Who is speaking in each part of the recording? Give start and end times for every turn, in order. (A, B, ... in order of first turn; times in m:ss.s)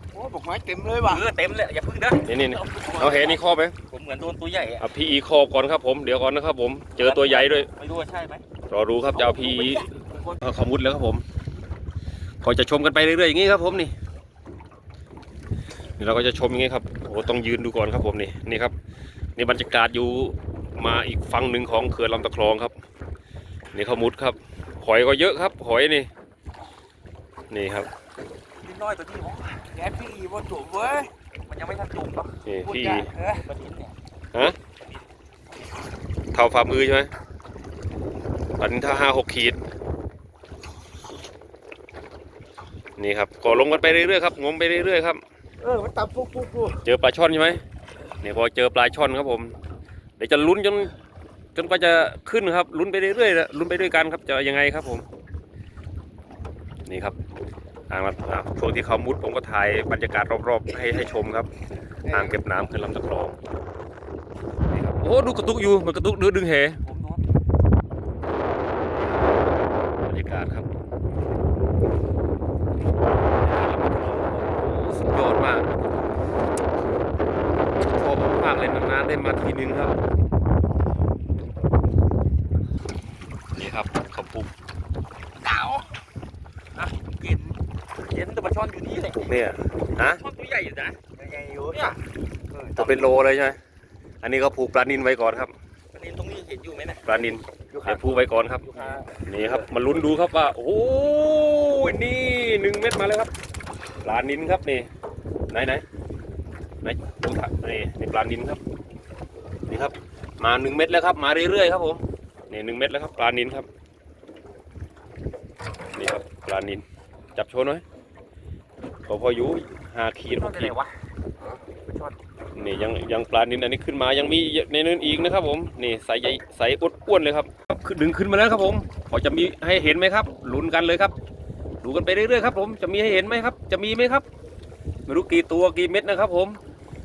0:00.1-0:01.2 A
0:00.9-0:04.8 B
0:02.2-0:03.8 C
0:04.8-0:07.7 C
0:07.0-0:08.4 B
0:08.7-0:09.8 C
0:09.1-0:10.4 B
0:10.4-0:11.2 C
0:12.4-0:13.9 C
0:16.0-0:18.7 C
0:19.4-0:22.7 C
0:23.7-0:26.1 C
0:27.5-0:27.9 C
0:28.6-0:34.0 B
0:32.4-0:33.1 C
0:36.3-0:37.1 C
0:38.6-0:39.6 C
0:43.0-0:45.2 C
0:45.7-0:46.8 A
0:46.8-0:47.6 C
0:48.2-0:49.5 C
0:50.2-0:50.9 C
0:51.5-0:55.0 C
0:56.9-0:57.2 C
0:57.9-1:01.5 C
1:02.1-1:03.4 C
1:04.8-1:06.8 C
1:06.8-1:07.2 B
1:10.0-1:10.7 C
1:13.4-1:15.7 C
1:17.9-1:20.0 C
1:23.5-1:24.5 C
1:25.4-1:25.8 B
1:26.7-1:29.4 B
1:29.1-1:30.2 C
1:30.0-1:32.0 B
1:32.5-1:33.0 B
1:32.8-1:33.6 C
1:34.2-1:35.5 C
1:35.9-1:37.1 B
1:37.0-1:38.7 C
1:37.7-1:39.6 B
1:39.2-1:43.3 C
1:44.0-1:44.9 C
1:45.5-1:45.8 C
1:46.8-1:48.6 C
1:49.7-1:53.7 C
1:56.0-1:56.8 C
1:57.3-1:57.8 C
1:59.1-2:00.8 C
2:00.4-2:00.9 B
2:01.9-2:02.2 B
2:02.6-2:11.1 C
2:11.8-2:14.2 C
2:15.1-2:16.6 C